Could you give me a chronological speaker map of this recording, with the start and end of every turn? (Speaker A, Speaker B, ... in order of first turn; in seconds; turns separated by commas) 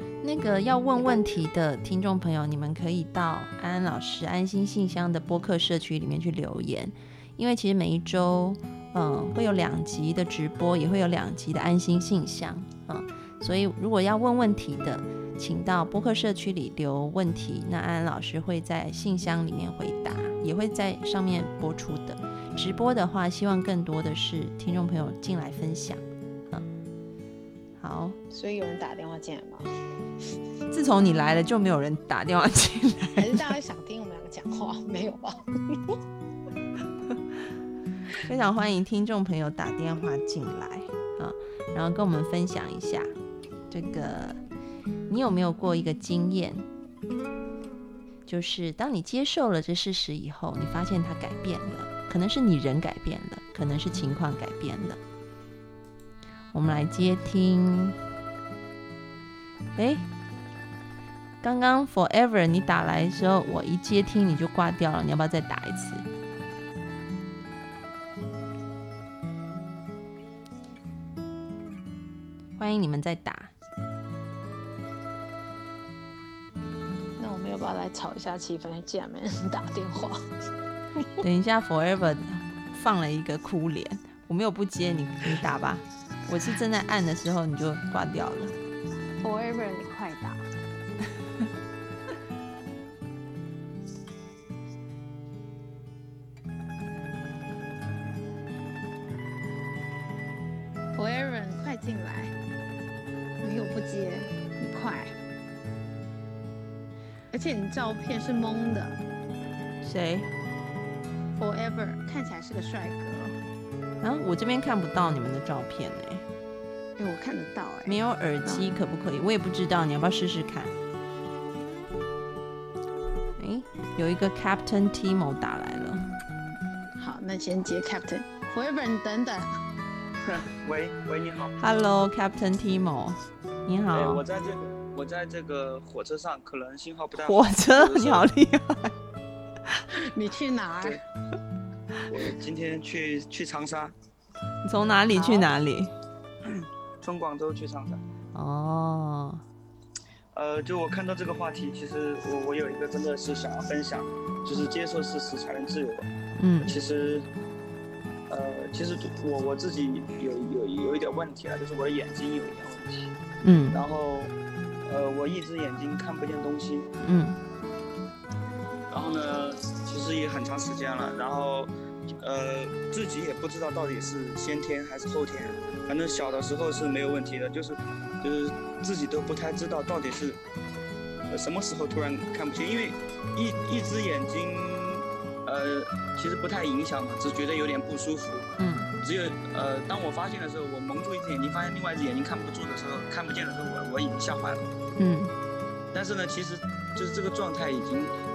Speaker A: 0.2-26.6, Speaker B: 1.0-1.4, Speaker A: 27.8-28.2, Speaker B: 28.3-29.7, Speaker A: 30.7-33.5, Speaker B: 33.2-36.0, Speaker A: 38.2-43.1, Speaker A: 43.7-44.4, Speaker A: 45.1-46.6, Speaker A: 48.3-55.0, Speaker A: 56.5-58.0, Speaker A: 59.8-60.0, Speaker A: 61.4-66.0, Speaker A: 72.6-73.5, Speaker B: 77.2-80.3, Speaker A: 81.2-88.5, Speaker B: 89.2-90.5, Speaker B: 100.9-102.3, Speaker B: 103.4-105.2, Speaker B: 107.3-109.0, Speaker A: 109.8-110.3, Speaker B: 111.3-113.4, Speaker A: 114.0-116.2, Speaker B: 117.0-118.7, Speaker A: 117.8-120.7, Speaker A: 123.4-126.1, Speaker B: 126.9-129.6, Speaker C: 130.3-131.6, Speaker A: 131.6-134.2, Speaker C: 133.9-138.3, Speaker A: 137.2-138.9, Speaker B: 139.9-141.0, Speaker C: 142.1-143.9, Speaker A: 144.6-145.9, Speaker B: 145.1-145.5, Speaker C: 146.4-148.0, Speaker A: 148.3-149.4, Speaker C: 150.3-156.1, Speaker A: 156.4-156.8, Speaker C: 156.6-157.3, Speaker C: 158.3-163.1, Speaker A: 163.4-163.8, Speaker C: 163.7-164.3, Speaker C: 164.8-166.9, Speaker A: 167.0-167.4, Speaker C: 168.9-180.4, Speaker C: 181.3-194.7, Speaker A: 188.6-188.9, Speaker A: 195.0-195.3, Speaker C: 195.9-198.1